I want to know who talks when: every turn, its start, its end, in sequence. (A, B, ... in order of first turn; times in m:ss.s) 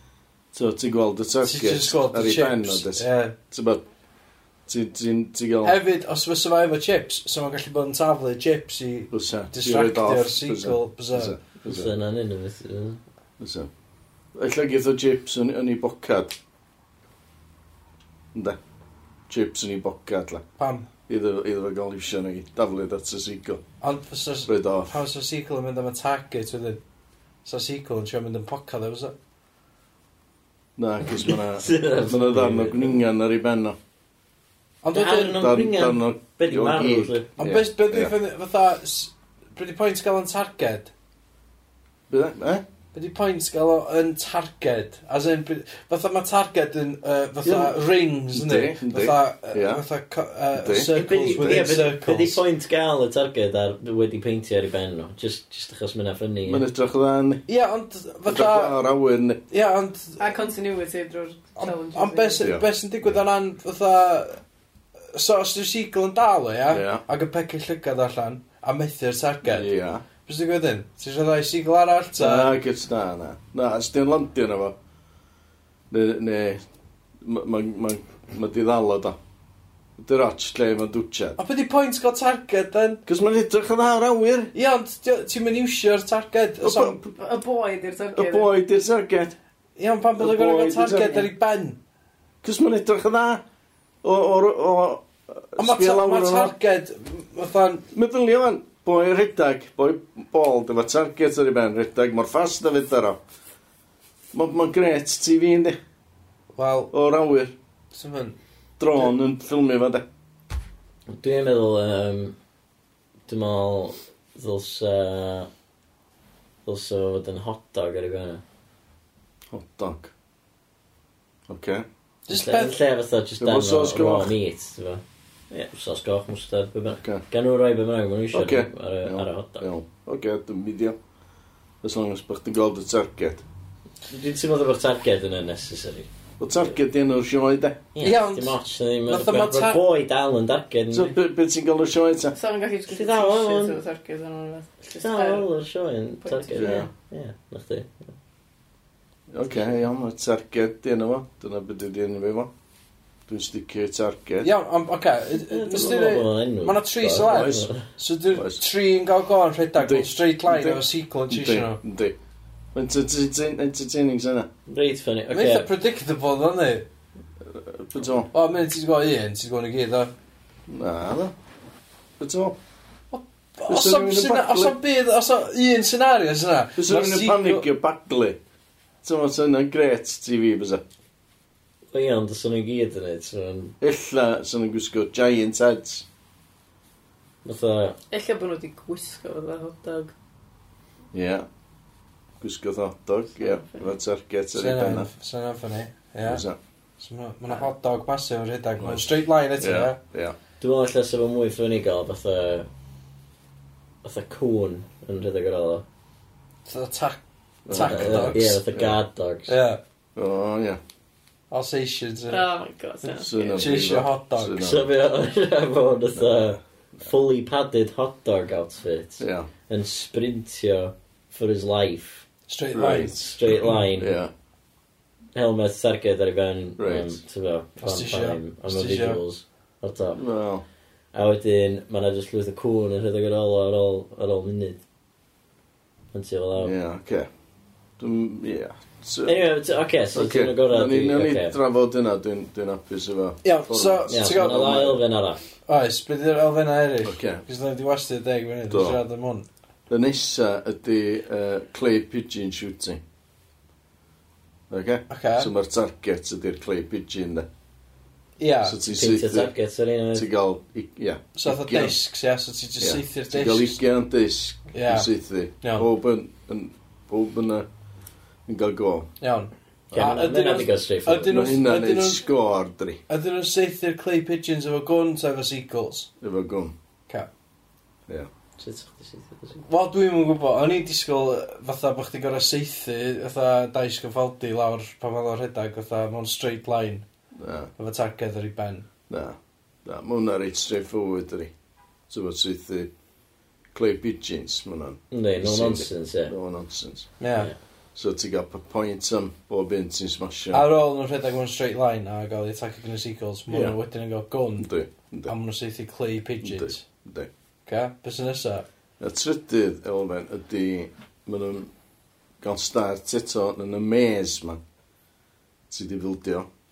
0:00.5-0:03.8 A
0:01.4-0:03.4 B
0:04.7-0:05.8 A
0:05.6-0:11.3 B
0:09.1-0:11.9 A
0:11.6-0:13.0 C
0:13.4-0:13.7 A
0:14.3-0:16.4 A
0:19.3-0:20.4 A
0:20.6-0:20.9 B
0:21.1-0:23.6 A
0:23.8-0:26.8 B
0:24.4-0:25.0 A
0:27.4-0:29.1 B
0:30.8-0:33.8 A
0:31.0-0:33.0 C
0:34.8-0:35.5 B
0:34.9-0:37.3 C
0:35.3-0:38.1 A
0:37.4-0:40.9 B
0:42.1-0:42.6 A
0:42.9-0:52.4 B
0:47.4-0:49.8 A
0:50.5-0:51.8 A
0:50.9-0:56.6 C
0:56.5-0:57.4 A
0:57.5-0:58.8 B
0:58.2-0:59.4 A
0:59.5-1:00.2 B
1:00.2-1:02.5 D
1:01.6-1:04.4 B
1:02.4-1:03.2 A
1:05.1-1:09.7 B
1:06.7-1:07.0 A
1:09.4-1:10.0 A
1:10.2-1:12.6 B
1:12.2-1:14.7 A
1:15.9-1:16.6 A
1:17.2-1:19.2 A
1:20.0-1:21.4 A
1:21.4-1:23.0 B
1:23.0-1:24.5 A
1:24.5-1:27.0 B
1:26.6-1:27.1 A
1:27.2-1:28.5 D
1:28.1-1:29.3 A
1:29.8-1:31.8 B
1:30.2-1:31.3 A
1:32.4-1:33.4 A
1:34.0-1:36.5 A
1:35.6-1:37.9 B
1:37.9-1:43.2 A
1:44.3-1:45.8 A
1:46.5-1:46.9 B
1:46.9-1:47.5 A
1:47.9-1:48.4 B
1:48.8-1:50.0 A
1:51.1-1:52.4 C
1:53.3-1:55.5 C
1:56.6-1:58.4 C
1:59.5-2:00.1 A
2:01.5-2:01.8 A
2:02.3-2:02.8 B
2:02.3-2:09.7 C
2:03.4-2:04.3 A
2:08.3-2:11.0 A
2:11.8-2:13.4 A
2:14.1-2:16.1 C
2:16.4-2:17.8 A
2:17.9-2:21.2 C
2:18.0-2:19.8 B
2:20.9-2:22.3 A
2:22.3-2:25.5 D
2:22.9-2:23.8 C
2:25.0-2:28.1 C
2:26.2-2:26.9 D
2:26.5-2:26.9 A
2:29.3-2:32.5 A
2:29.5-2:29.7 C
2:33.3-2:34.5 A
2:34.4-2:41.8 B
2:35.4-2:37.8 C
2:35.8-2:36.2 A
2:37.1-2:37.7 A
2:38.3-2:38.6 A
2:39.8-2:42.1 A
2:42.7-2:44.5 A
2:44.7-2:45.7 C
2:45.3-2:46.9 B
2:47.4-2:48.3 A
2:48.3-2:50.1 B
2:50.7-2:51.3 A
2:52.2-2:52.6 A
2:53.1-2:57.7 B
2:53.7-2:54.8 A
2:56.8-2:58.4 A
2:59.0-3:00.8 A
3:01.9-3:03.7 C
3:03.8-3:06.0 A
3:07.4-3:08.0 C
3:08.1-3:10.1 D
3:11.1-3:11.5 A
3:12.4-3:15.1 A
3:13.3-3:13.9 D
3:14.5-3:16.4 B
3:16.2-3:16.6 A
3:17.0-3:20.0 B
3:18.8-3:20.3 A
3:20.6-3:22.7 C
3:24.0-3:25.8 C
3:26.6-3:28.5 B
3:27.6-3:29.0 A
3:27.8-3:29.5 C
3:29.5-3:29.8 B
3:30.2-3:30.8 A
3:31.5-3:32.5 B
3:32.3-3:33.7 D
3:33.1-3:34.9 A
3:33.5-3:34.6 B
3:34.6-3:42.2 C
3:36.1-3:37.1 A
3:39.2-3:39.5 A
3:42.5-3:43.2 B
3:42.7-3:44.3 A
3:43.1-3:44.2 C
3:45.3-3:50.2 C
3:46.8-3:47.2 A
3:47.8-3:49.2 B
3:50.1-3:50.6 A
3:51.1-3:54.8 C
3:56.1-3:56.7 C
3:56.6-3:57.3 A
3:58.0-3:59.4 A
3:59.2-4:01.6 C
4:00.1-4:05.0 A
4:03.4-4:04.7 B
4:04.1-4:05.4 C
4:05.7-4:09.4 B
4:07.0-4:07.4 A
4:08.7-4:09.0 A
4:09.9-4:13.0 A
4:14.7-4:17.5 A
4:15.1-4:15.5 B
4:18.4-4:18.8 B
4:18.6-4:19.5 A
4:18.8-4:20.3 C
4:20.1-4:22.0 A
4:21.3-4:23.8 B
4:22.8-4:27.7 A
4:24.7-4:25.1 B
4:25.6-4:25.9 B
4:28.5-4:29.1 A
4:29.2-4:32.2 B
4:29.9-4:30.2 A
4:29.9-4:31.5 C
4:31.3-4:33.0 A
4:33.1-4:36.1 B
4:36.2-4:36.7 A
4:38.6-4:39.6 C
4:39.6-4:47.0 B
4:47.4-4:47.7 A
4:47.8-4:48.9 B
4:49.1-4:51.5 A
4:52.1-4:52.9 A
4:53.7-4:57.1 A
4:55.1-4:56.3 C
4:57.2-4:57.5 B
4:57.9-5:00.7 A
5:00.5-5:04.7 B
5:03.5-5:03.7 A
5:04.6-5:05.3 A
5:05.3-5:06.8 B
5:06.4-5:07.3 A
5:07.6-5:08.6 B
5:09.0-5:11.7 A
5:12.4-5:14.6 A
5:15.7-5:16.5 A